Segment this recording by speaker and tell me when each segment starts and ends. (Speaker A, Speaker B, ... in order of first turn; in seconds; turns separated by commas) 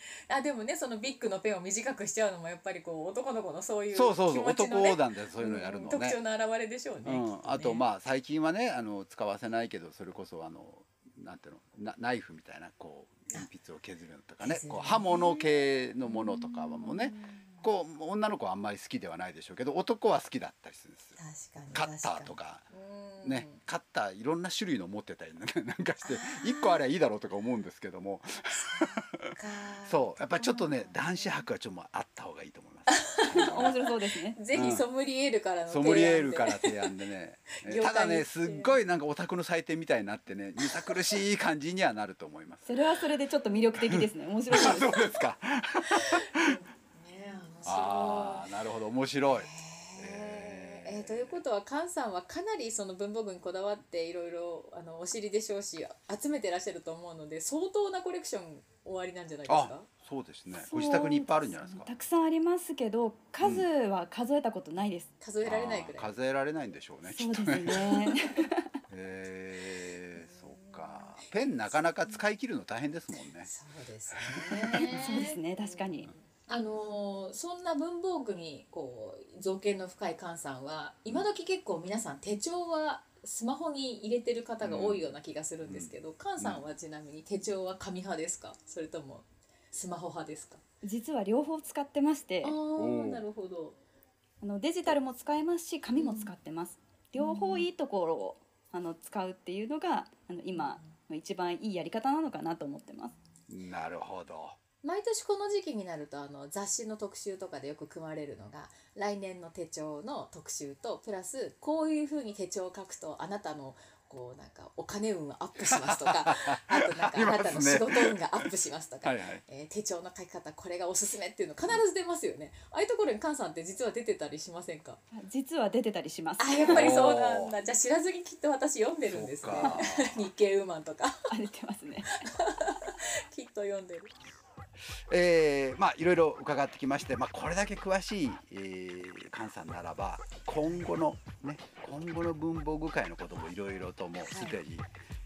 Speaker A: 0.3-7.8, Speaker B: 3.9-6.2, Speaker B: 7.0-21.2, Speaker A: 14.4-17.6, Speaker A: 21.2-23.6, Speaker B: 21.7-22.6, Speaker B: 23.2-29.3, Speaker A: 26.0-26.8, Speaker A: 28.5-31.4, Speaker B: 29.9-33.8, Speaker A: 32.9-36.9, Speaker C: 33.5-34.4, Speaker B: 34.5-34.9, Speaker B: 35.7-42.8, Speaker A: 37.6-38.8, Speaker A: 40.6-41.1, Speaker C: 42.7-45.1, Speaker B: 43.9-46.6, Speaker A: 45.9-48.5, Speaker B: 47.6-51.4, Speaker A: 49.3-59.9, Speaker B: 59.5-61.9, Speaker C: 60.6-65.1, Speaker A: 65.2-66.1, Speaker B: 65.4-68.1, Speaker C: 67.0-68.8, Speaker B: 68.9-73.5, Speaker A: 70.1-72.2, Speaker A: 73.4-90.6, Speaker B: 74.1-74.9, Speaker C: 74.8-76.1, Speaker B: 84.6-85.1, Speaker B: 85.7-86.6, Speaker C: 90.8-92.6, Speaker A: 92.4-93.8, Speaker B: 92.8-93.2, Speaker C: 94.4-103.2, Speaker A: 96.0-96.3, Speaker A: 97.2-97.7, Speaker A: 100.5-100.9, Speaker B: 103.5-104.6, Speaker A: 104.8-125.0, Speaker B: 115.6-118.5, Speaker B: 119.0-119.4, Speaker C: 125.1-126.9, Speaker A: 126.4-131.3, Speaker B: 126.7-127.5, Speaker B: 129.0-130.3, Speaker C: 129.6-129.8, Speaker C: 131.3-132.3, Speaker A: 132.1-134.1, Speaker B: 135.1-144.9, Speaker A: 144.3-144.6